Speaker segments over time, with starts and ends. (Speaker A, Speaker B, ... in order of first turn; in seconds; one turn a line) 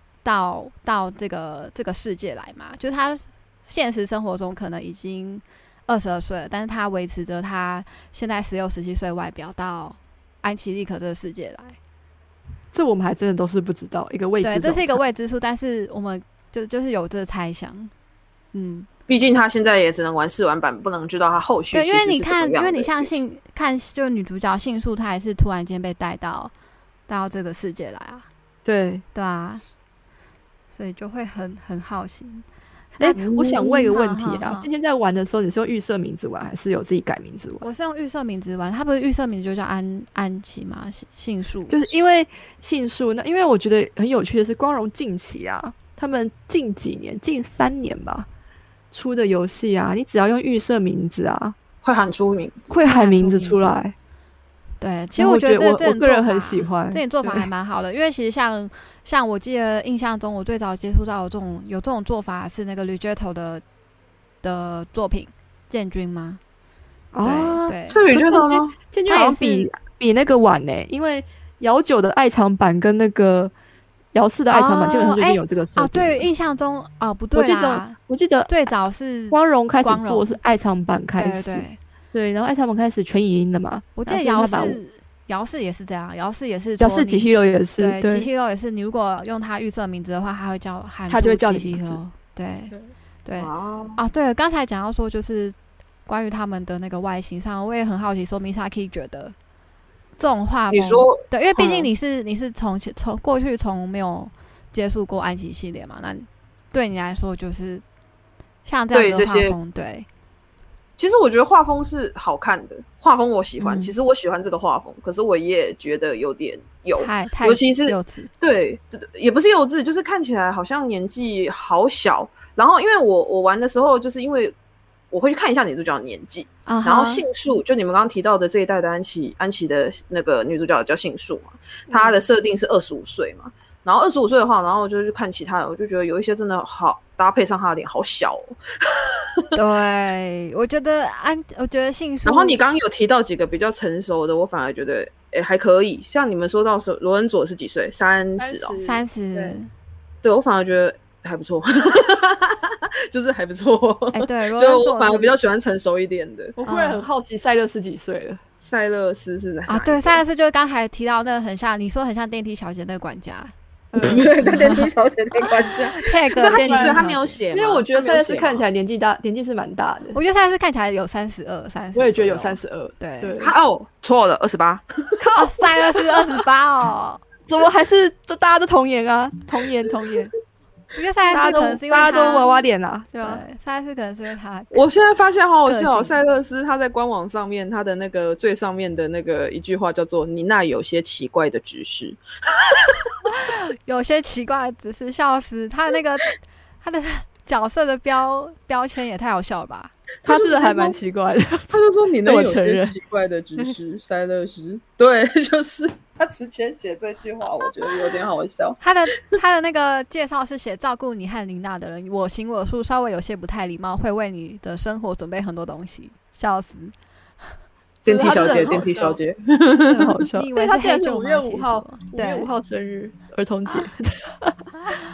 Speaker A: 0.2-11.8
Speaker B: 12.7-15.0
Speaker A: 14.4-17.9
Speaker A: 18.5-18.9
Speaker C: 19.1-23.2
Speaker A: 21.7-26.5
Speaker A: 27.1-28.3
Speaker B: 28.6-29.0
Speaker A: 29.1-29.6
Speaker A: 30.8-32.5
Speaker B: 33.0-37.6
Speaker A: 33.0-34.7
Speaker C: 33.1-33.5
Speaker A: 37.6-41.9
Speaker B: 41.7-48.3
Speaker B: 48.9-51.6
Speaker C: 51.8-52.6
Speaker B: 52.7-53.9
Speaker A: 52.8-53.8
Speaker A: 54.8-63.6
Speaker B: 55.2-57.5
Speaker A: 64.4-66.4
Speaker B: 67.1-73.5
Speaker A: 67.2-68.0
Speaker C: 67.9-68.8
Speaker A: 69.1-69.7
Speaker B: 74.1-76.3
Speaker A: 74.5-80.4
Speaker B: 77.3-78.5
Speaker B: 79.3-84.8
Speaker A: 81.2-81.8
Speaker A: 84.0-92.7
Speaker B: 86.8-88.3
Speaker B: 91.1-92.0
Speaker A: 93.2-99.3
Speaker C: 93.4-94.0
Speaker A: 100.2-107.8
Speaker C: 100.7-101.9
Speaker A: 108.7-110.1
Speaker C: 108.9-109.6
Speaker C: 111.0-124.5
Speaker A: 113.6-114.0
Speaker A: 117.0-118.3
Speaker C: 125.1-139.5
Speaker A: 126.7-127.2
Speaker A: 131.9-132.2
Speaker A: 139.5-142.6
Speaker C: 142.2-148.8
Speaker B: 148.4-149.6
Speaker A: 148.8-149.7
Speaker C: 150.2-156.6
Speaker A: 154.1-155.3
Speaker B: 156.6-158.4
Speaker A: 156.7-157.1
Speaker C: 158.6-160.2
Speaker A: 159.7-163.5
Speaker B: 163.9-164.7
Speaker C: 164.0-168.7
Speaker A: 164.2-164.9
Speaker A: 166.0-167.4
Speaker B: 166.6-167.0
Speaker B: 167.5-170.2
Speaker A: 170.1-173.5
Speaker B: 171.9-173.5
Speaker C: 173.4-175.2
Speaker B: 175.2-176.4
Speaker A: 175.4-177.2
Speaker B: 177.5-180.3
Speaker A: 180.9-182.6
Speaker B: 181.3-183.4
Speaker A: 183.2-184.9
Speaker C: 184.7-192.2
Speaker A: 185.7-186.2
Speaker C: 192.7-193.1
Speaker A: 193.2-199.9
Speaker C: 200.2-201.0
Speaker B: 200.3-203.0
Speaker C: 201.7-208.8
Speaker A: 208.8-216.9
Speaker C: 218.0-220.2
Speaker B: 218.1-219.2
Speaker B: 219.9-224.7
Speaker A: 220.3-222.5